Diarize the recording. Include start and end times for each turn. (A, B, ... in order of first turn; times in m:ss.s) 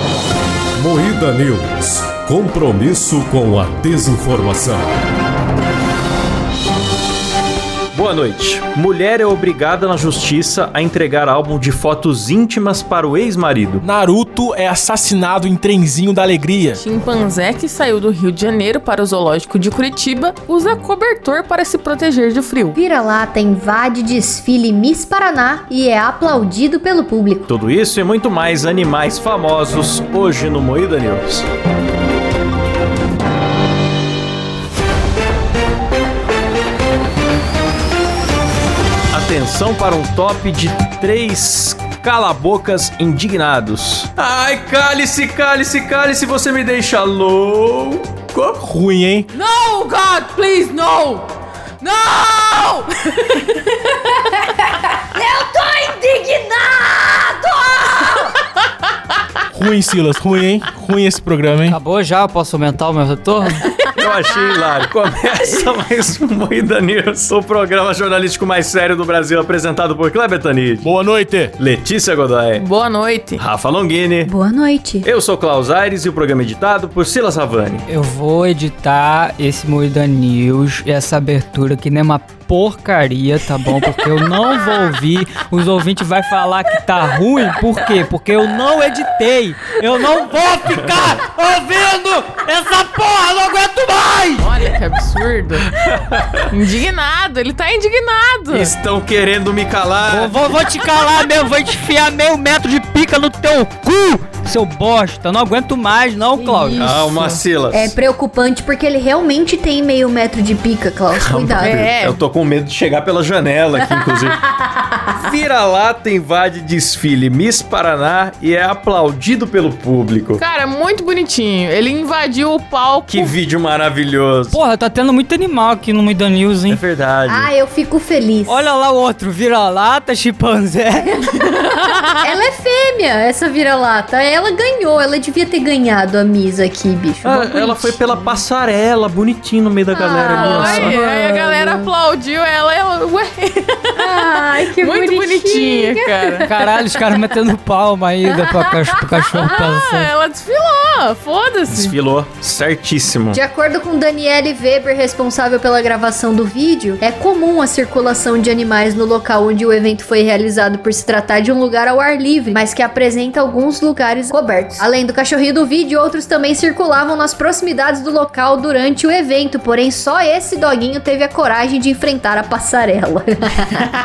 0:00.8-0:04.8 A
0:07.9-0:13.8 B
0:13.8-0:16.8 C
0:16.8-0:22.8 D
0:22.7-0:27.5 E
0:27.5-0:31.4 B
0:39.1-0:48.7 B
0:48.6-0:49.3 C
0:49.3-0:51.3 D
0:51.8-0:58.3 D
0:59.5-1:01.8 C
1:01.7-1:03.7 F
1:03.9-1:10.9 B
1:10.8-1:11.5 C
1:11.6-1:12.7 B
1:12.6-1:13.4 D
1:13.4-1:14.3 B
1:14.2-1:15.1 E
1:15.0-1:17.8 B
1:17.9-1:34.5 F
1:34.4-1:35.7 D
1:35.7-1:36.5 B
1:36.5-1:38.7 D
1:38.6-1:40.4 B
1:40.1-1:46.9 F
1:46.4-1:47.4 D
1:46.8-1:47.9 B
1:47.7-1:51.9 E
1:51.1-1:54.4 B
1:51.5-1:52.2 D
1:53.8-1:55.3 E
1:55.2-2:00.4 B
2:00.4-2:03.3 D
2:03.1-2:04.6 B
2:04.5-2:06.8 F
2:06.7-2:07.5 B
2:07.3-2:08.7 E
2:08.5-2:11.2 F
2:12.2-2:18.4 E
2:17.2-2:21.0 B
2:19.9-2:21.9 E
2:20.3-2:26.6 D
2:24.0-2:26.5 E
2:26.4-2:30.1 F
2:29.4-2:32.0 D
2:31.7-2:33.4 B
2:33.3-2:53.9 E